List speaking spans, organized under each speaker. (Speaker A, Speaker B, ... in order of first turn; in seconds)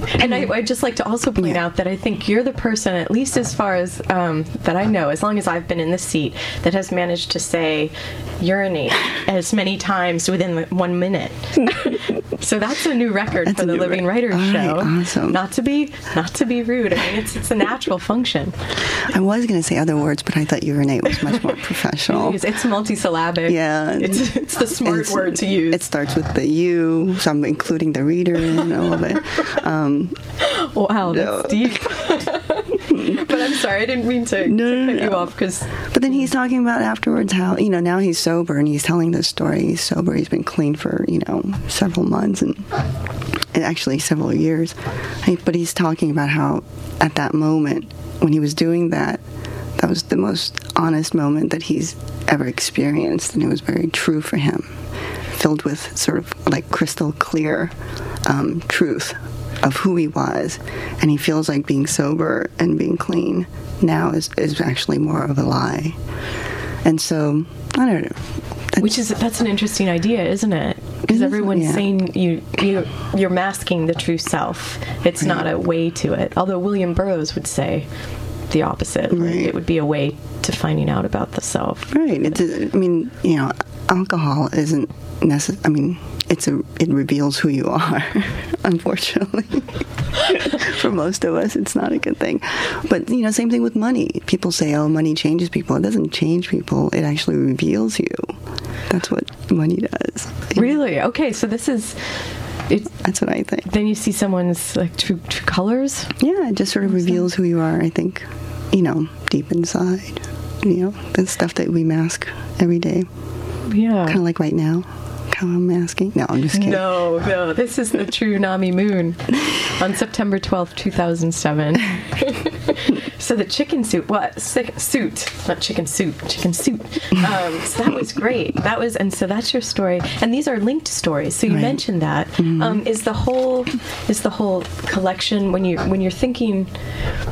Speaker A: 0.1-18.6, 22.1-25.9, 30.4-36.3, 68.8-77.9, 78.5-81.9, 100.5-102.1, 103.6-106.1, 106.9-107.2, 113.7-114.2, 116.5-136.7
Speaker B: 0.2-0.5, 1.4-1.6, 13.4-15.4, 19.1-22.4, 23.4-30.2, 31.1-32.0, 32.9-33.4, 34.4-35.3, 35.9-42.7, 43.5-49.2, 49.8-54.8, 55.3-66.0, 66.8-69.0, 71.1-71.9, 79.1-79.5, 81.9-98.4, 98.9-100.8, 103.0-103.7, 106.2-113.1, 114.1-116.9, 131.5-131.8, 132.4-132.8